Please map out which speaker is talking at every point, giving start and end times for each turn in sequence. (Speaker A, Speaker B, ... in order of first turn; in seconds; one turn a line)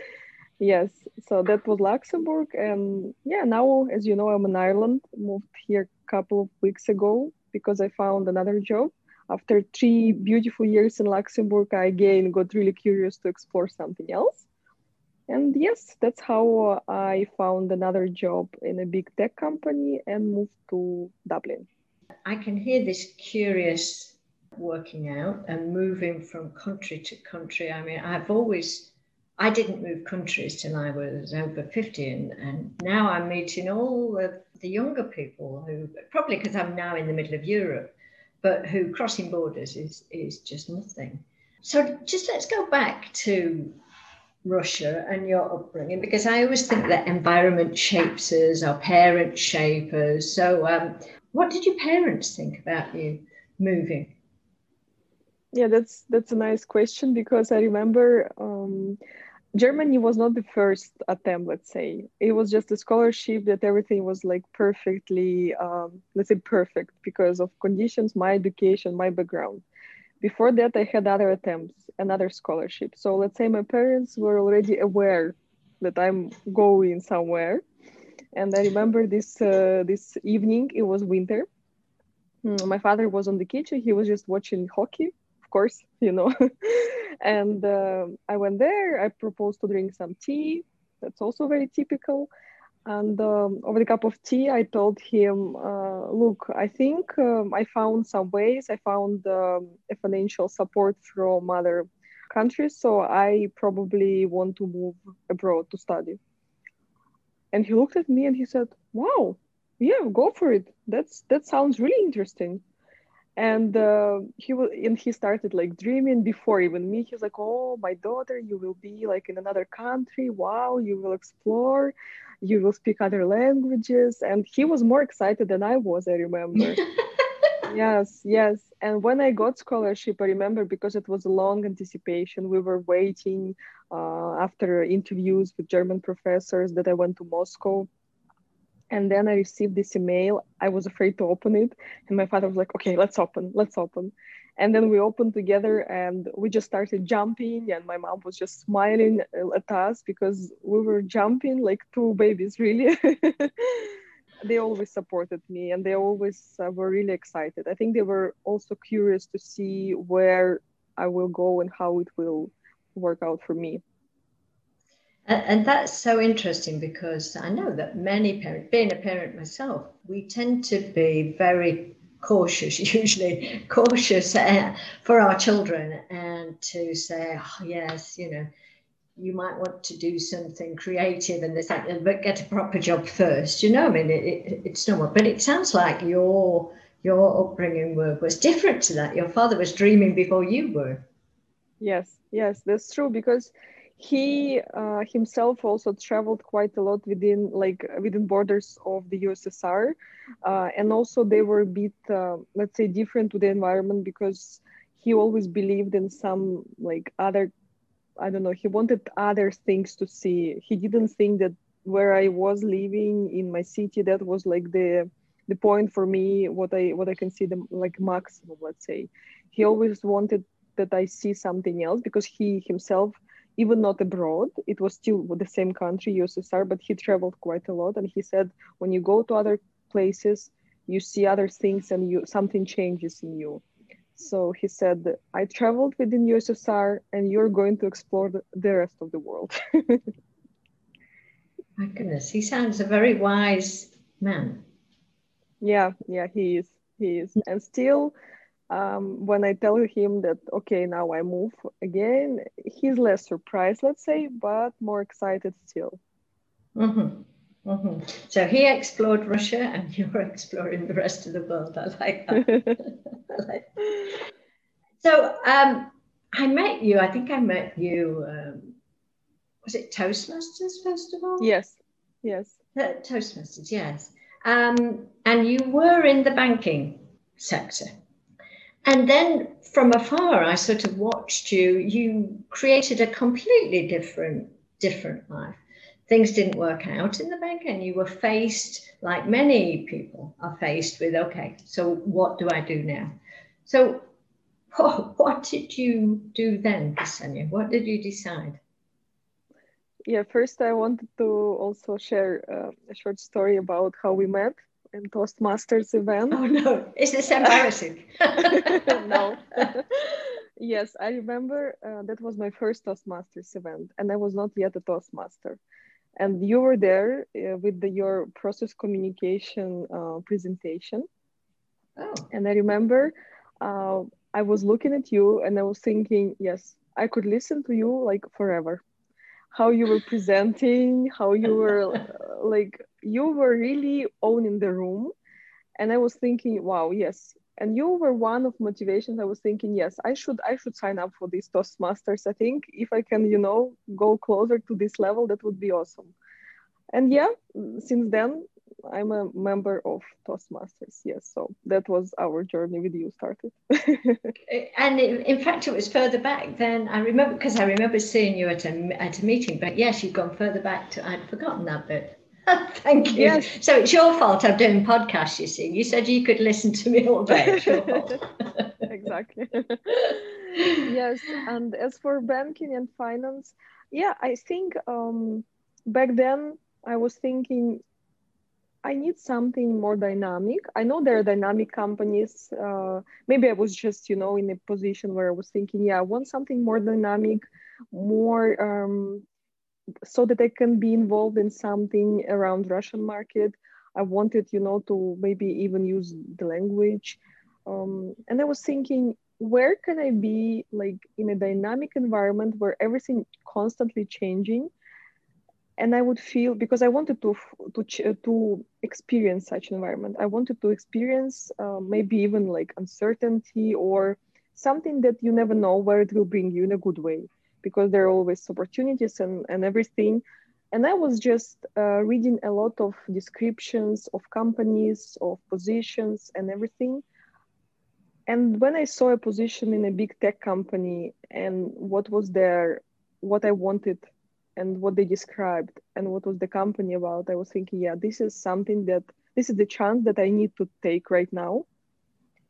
Speaker A: 0.6-14.4
Speaker A: 15.3-21.7
Speaker B: 22.2-43.7
Speaker B: 44.4-54.1
Speaker A: 55.5-59.0
Speaker A: 59.5-69.6
Speaker A: 70.2-77.6
Speaker A: 78.3-81.5
Speaker A: 82.4-92.3
Speaker A: 92.8-106.2
Speaker A: 107.5-112.6
Speaker A: 113.4-126.8
Speaker A: 127.7-137.9
Speaker A: 138.9-153.9
Speaker A: 154.4-163.8
Speaker B: 165.2-178.5
Speaker B: 179.2-191.0
Speaker A: 191.8-207.5
Speaker A: 208.2-233.6
Speaker A: 234.2-240.1
Speaker B: 241.8-244.6
Speaker A: 245.6-248.1
Speaker A: 248.7-256.0
Speaker B: 256.7-264.2
Speaker B: 265.0-268.8
Speaker B: 269.6-271.5
Speaker A: 271.4-272.6
Speaker B: 272.7-277.9
Speaker B: 278.8-294.1
Speaker B: 294.7-298.6
Speaker A: 300.1-306.4
Speaker B: 306.3-309.2
Speaker A: 308.4-315.6
Speaker A: 316.2-321.1
Speaker B: 322.0-322.3
Speaker A: 322.3-328.8
Speaker A: 329.5-335.1
Speaker A: 335.8-346.1
Speaker A: 346.9-354.3
Speaker B: 354.5-368.9
Speaker A: 363.1-363.5
Speaker A: 367.4-368.0
Speaker A: 368.9-377.8
Speaker A: 378.8-389.2
Speaker A: 390.0-404.7
Speaker A: 405.8-427.0
Speaker A: 428.3-441.6